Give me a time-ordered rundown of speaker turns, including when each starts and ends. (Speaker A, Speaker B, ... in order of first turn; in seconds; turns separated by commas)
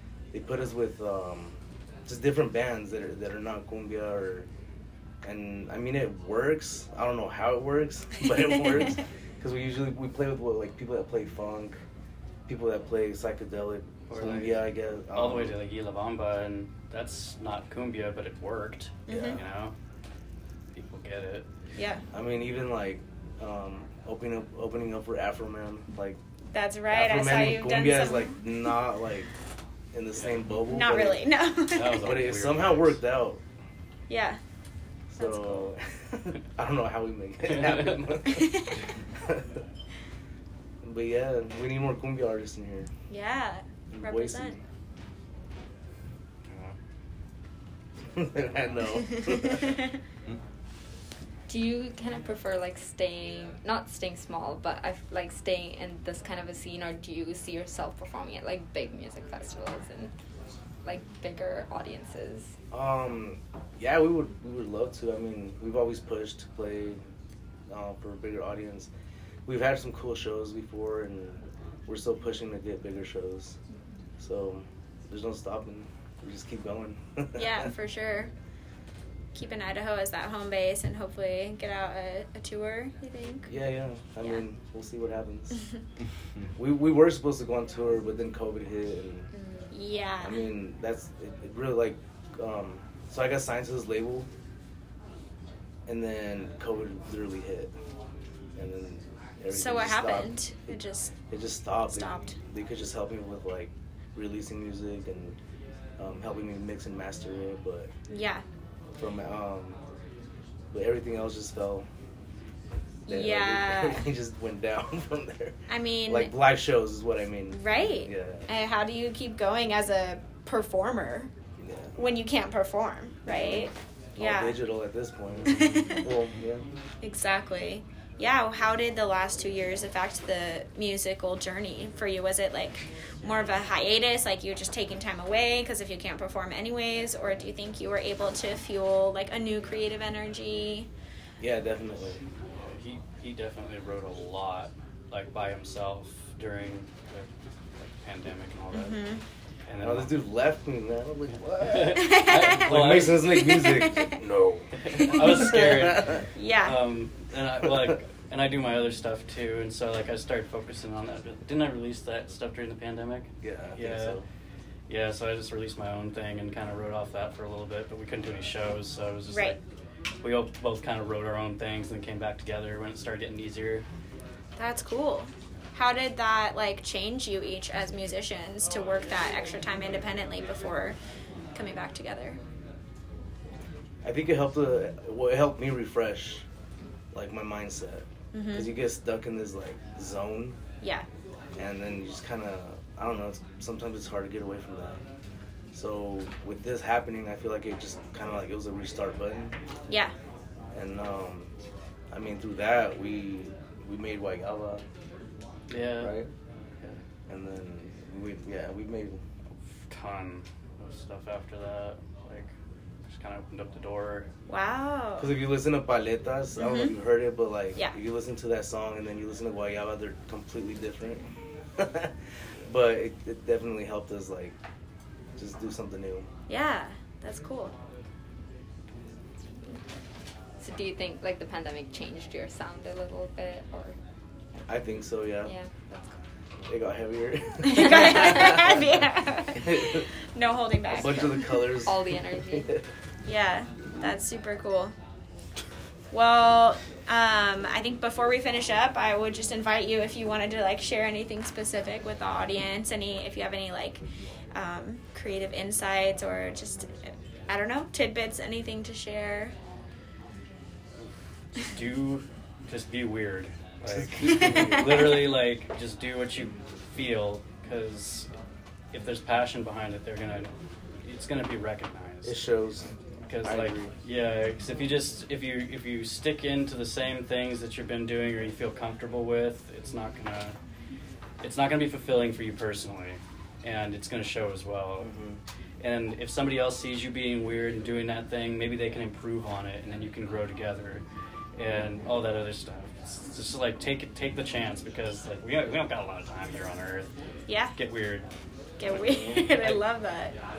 Speaker A: 0.3-4.5, Speaker A: 5.2-11.8, Speaker A: 12.5-15.6, Speaker B: 14.1-19.8, Speaker C: 19.1-19.4, Speaker A: 19.1-19.4, Speaker B: 20.7-21.5, Speaker C: 21.8-22.0, Speaker A: 22.1-26.2, Speaker C: 26.5-28.4, Speaker A: 26.9-29.3, Speaker A: 29.9-31.2, Speaker B: 30.1-30.4, Speaker C: 30.6-32.1, Speaker B: 31.7-33.0, Speaker A: 32.0-33.4, Speaker C: 34.1-34.4, Speaker A: 35.1-39.6, Speaker C: 35.2-35.7, Speaker B: 37.4-38.3, Speaker C: 38.3-38.8, Speaker A: 40.8-42.9, Speaker C: 43.1-44.6, Speaker A: 43.9-44.6, Speaker B: 46.5-46.8, Speaker A: 48.1-49.8, Speaker C: 49.1-49.9, Speaker D: 51.5-60.1, Speaker D: 60.8-62.5, Speaker A: 62.7-67.0, Speaker A: 67.7-68.9, Speaker A: 69.5-73.6, Speaker A: 74.2-77.7, Speaker C: 77.4-78.3, Speaker C: 79.3-83.5, Speaker A: 83.5-85.6, Speaker A: 86.5-89.3, Speaker D: 89.4-89.7, Speaker C: 89.7-90.4, Speaker A: 90.2-94.3, Speaker A: 95.9-97.8, Speaker A: 98.6-100.3, Speaker C: 99.5-101.1, Speaker A: 101.3-105.4, Speaker C: 101.9-102.4, Speaker A: 106.0-107.9, Speaker C: 108.1-108.4, Speaker A: 109.0-109.8, Speaker A: 110.7-111.9, Speaker C: 113.1-114.1, Speaker A: 113.1-118.5, Speaker C: 115.7-116.3, Speaker C: 117.5-121.3, Speaker A: 121.6-122.0, Speaker C: 122.0-124.6, Speaker A: 123.3-126.7, Speaker C: 125.5-126.1, Speaker C: 127.0-140.9, Speaker A: 141.4-142.2, Speaker B: 142.6-149.0, Speaker C: 148.7-149.2, Speaker B: 149.7-150.2, Speaker A: 149.8-156.2, Speaker B: 151.6-153.4, Speaker C: 151.9-152.7, Speaker C: 153.2-154.2, Speaker B: 154.8-164.2, Speaker C: 156.3-156.8, Speaker A: 157.6-157.9, Speaker A: 163.4-164.2, Speaker B: 164.9-169.6, Speaker C: 169.3-169.6, Speaker B: 170.2-173.8, Speaker C: 174.6-181.0, Speaker C: 181.6-182.4, Speaker A: 184.0-186.5, Speaker A: 187.1-190.6, Speaker C: 188.3-188.7, Speaker C: 190.8-191.1, Speaker A: 191.6-195.0, Speaker A: 195.7-199.6, Speaker A: 200.7-201.5, Speaker A: 202.1-204.8, Speaker B: 205.7-206.2, Speaker A: 206.0-206.3, Speaker A: 207.3-209.2, Speaker B: 209.9-212.5, Speaker B: 213.1-214.3, Speaker C: 214.5-215.3, Speaker A: 215.2-222.2, Speaker C: 216.6-216.9, Speaker A: 222.7-224.6, Speaker A: 225.4-226.3, Speaker C: 226.5-227.7, Speaker D: 230.6-234.0, Speaker A: 234.7-235.5, Speaker D: 235.4-236.1, Speaker A: 236.7-238.8, Speaker C: 237.6-241.6, Speaker A: 239.6-240.1, Speaker A: 240.9-242.8, Speaker D: 241.8-242.7, Speaker C: 243.3-244.9, Speaker C: 246.1-254.0, Speaker C: 254.5-259.5, Speaker B: 261.5-268.3, Speaker A: 263.9-265.1, Speaker C: 264.3-264.8, Speaker B: 268.9-270.5, Speaker B: 271.0-272.5, Speaker A: 272.2-272.9, Speaker B: 273.2-280.6, Speaker A: 273.4-273.9, Speaker B: 281.4-285.1, Speaker A: 285.0-285.4, Speaker B: 285.8-291.0, Speaker B: 291.6-297.1, Speaker C: 297.5-297.7, Speaker B: 297.8-298.3, Speaker C: 298.8-300.4, Speaker A: 298.9-299.5